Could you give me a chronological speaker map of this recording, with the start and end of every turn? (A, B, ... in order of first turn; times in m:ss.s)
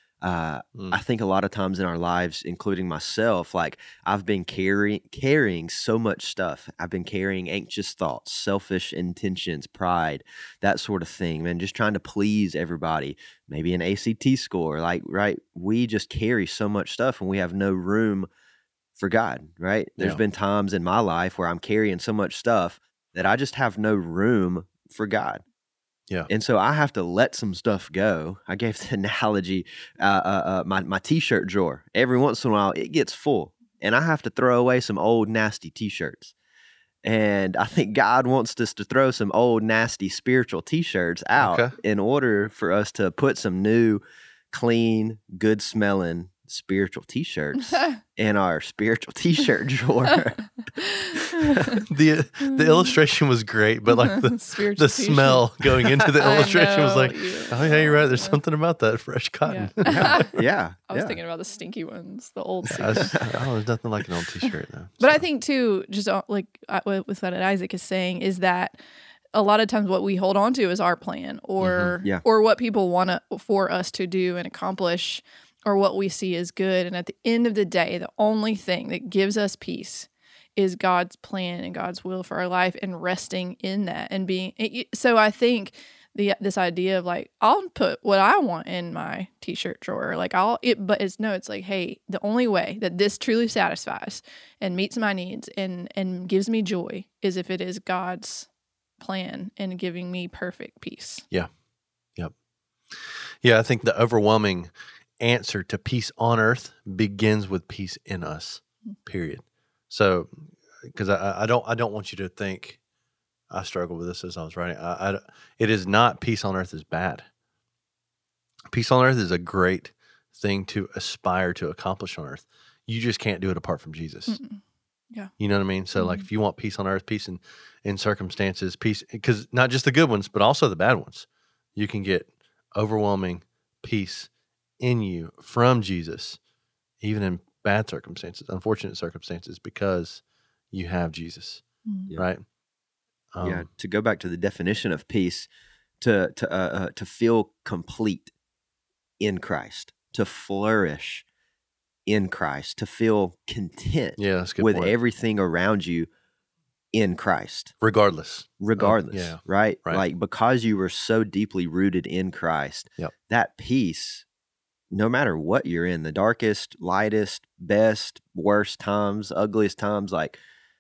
0:00.2-0:18.3 A
0:19.0-0:25.4 A
0:26.3-0:36.3 A
0:37.0-0:44.0 A
0:41.4-0:41.7 B
0:44.5-0:50.6 A
0:47.7-0:48.0 C
0:51.1-0:51.6 A
0:51.5-0:51.8 C
0:51.9-1:00.3 B
0:52.4-0:52.9 C
0:54.0-0:55.5 C
0:56.2-0:58.4 C
0:59.4-1:00.3 C
0:59.8-1:01.2 A
1:00.9-1:03.2 C
1:02.7-1:03.4 A
1:02.7-1:05.2 B
1:05.0-1:08.8 C
1:09.3-1:41.2 C
1:11.6-1:11.9 B
1:42.9-1:52.8 B
1:53.5-1:57.3 B
1:58.7-2:04.4 B
2:04.3-2:05.3 C
2:05.4-2:16.4 B
2:06.0-2:06.3 C
2:17.0-2:21.6 B
2:21.9-2:22.1 C
2:22.2-2:22.4 B
2:23.3-2:23.7 B
2:23.4-2:25.5 A
2:26.0-2:28.3 A
2:29.2-2:31.3 A
2:32.1-2:36.1 A
2:34.2-2:34.9 B
2:36.9-2:37.7 A
2:37.8-2:40.0 B
2:38.6-2:44.2 A
2:44.9-2:50.4 A